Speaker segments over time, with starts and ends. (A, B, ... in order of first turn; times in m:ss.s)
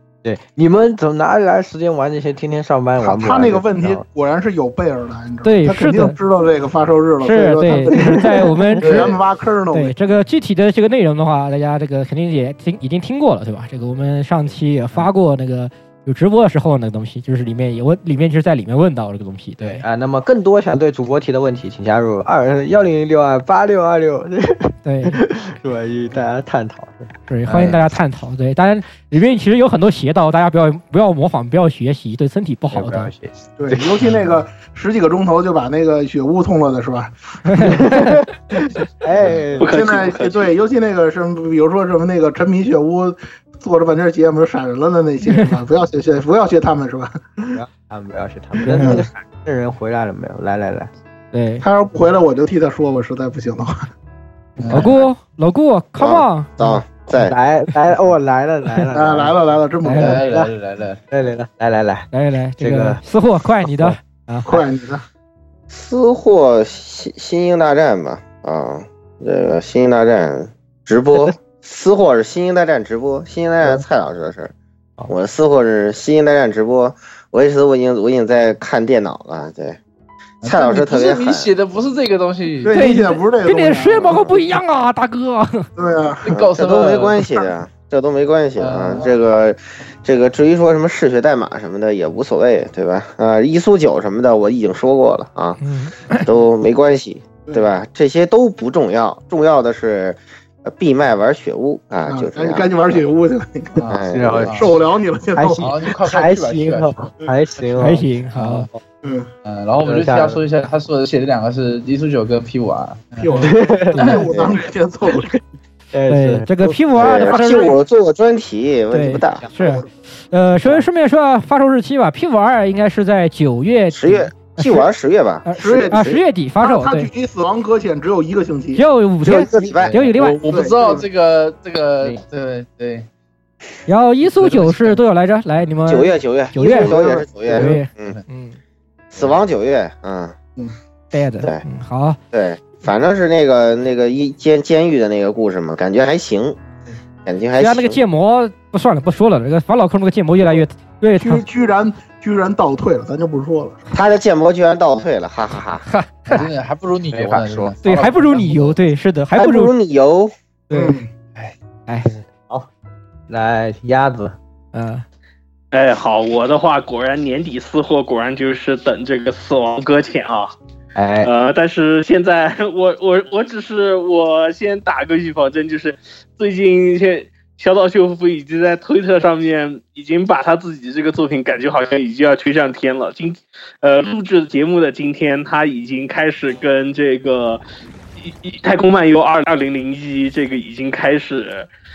0:00.2-0:04.0 A
0:03.0-0:10.0 B
0:05.4-0:06.2 C
0:07.2-0:09.1 C
0:08.8-0:09.1 A
0:09.7-0:19.8 C
0:19.6-0:27.7 A
0:24.8-0:25.2 C
0:27.3-0:33.1 C
0:27.5-0:27.8 D
0:32.7-0:34.2 A
0:33.6-0:38.0 B
0:37.4-0:38.2 C
0:37.8-0:38.1 A
0:39.0-0:39.7 A
0:39.6-0:40.5 E
0:39.6-0:47.6 B
0:47.5-0:50.9 A
0:48.6-0:49.0 B
0:51.3-0:51.6 C
0:51.6-0:53.9 B
0:54.6-0:55.0 D
0:54.7-0:56.8 C
0:56.0-0:57.3 F
0:57.1-0:59.4 A
0:58.9-1:00.3 B
0:59.8-1:00.2 C
1:00.0-1:01.0 D
1:00.1-1:00.5 A
1:01.1-1:03.0 A
1:02.1-1:04.6 C
1:04.4-1:05.0 B
1:05.7-1:14.5 F
1:15.1-1:19.8 F
1:20.4-1:22.8 D
1:20.4-1:21.5 F
1:22.6-1:24.3 B
1:22.7-1:25.7 C
1:25.8-1:26.4 B
1:26.2-1:27.2 D
1:26.5-1:43.0 F
1:28.6-1:29.1 D
1:35.6-1:36.3 C
1:42.1-1:44.0 B
1:43.9-1:44.5 F
1:44.1-1:44.7 A
1:44.5-1:45.6 B
1:45.4-1:48.1 A
1:45.6-1:47.0 D
1:47.8-1:48.7 C
1:48.4-1:48.6 D
1:49.0-1:49.3 B
1:49.4-1:54.5 D
1:49.8-1:50.4 A
1:53.2-1:55.3 B
1:53.4-1:54.3 A
1:55.1-1:55.4 A
1:55.9-1:56.5 A
1:56.1-1:57.7 C
1:56.9-1:59.5 F
1:58.9-2:04.9 C
1:59.5-1:59.8 B
2:03.9-2:05.4 F
2:05.4-2:07.1 C
2:05.6-2:08.8 B
2:08.8-2:10.4 C
2:09.5-2:09.9 F
2:09.6-2:13.1 D
2:10.4-2:11.0 B
2:13.9-2:18.6 C
2:14.2-2:15.0 D
2:15.9-2:18.2 F
2:16.8-2:17.2 B
2:17.5-2:18.2 D
2:19.1-2:20.3 F
2:21.1-2:22.2 C
2:22.3-2:26.6 F
2:27.2-2:28.0 F
2:27.6-2:31.4 C
2:31.2-2:33.9 B
2:33.9-2:35.8 F
2:35.8-2:36.5 C
2:36.3-2:38.8 D
2:37.1-2:37.7 A
2:37.8-2:39.7 C
2:39.4-2:40.3 F
2:40.7-2:41.0 C
2:40.7-2:41.1 B
2:42.1-2:42.7 A
2:43.3-2:44.4 A
2:44.7-2:45.0 C
2:45.7-2:50.5 E
2:50.9-2:51.3 A
2:51.2-3:07.6 E
3:08.2-3:11.7 E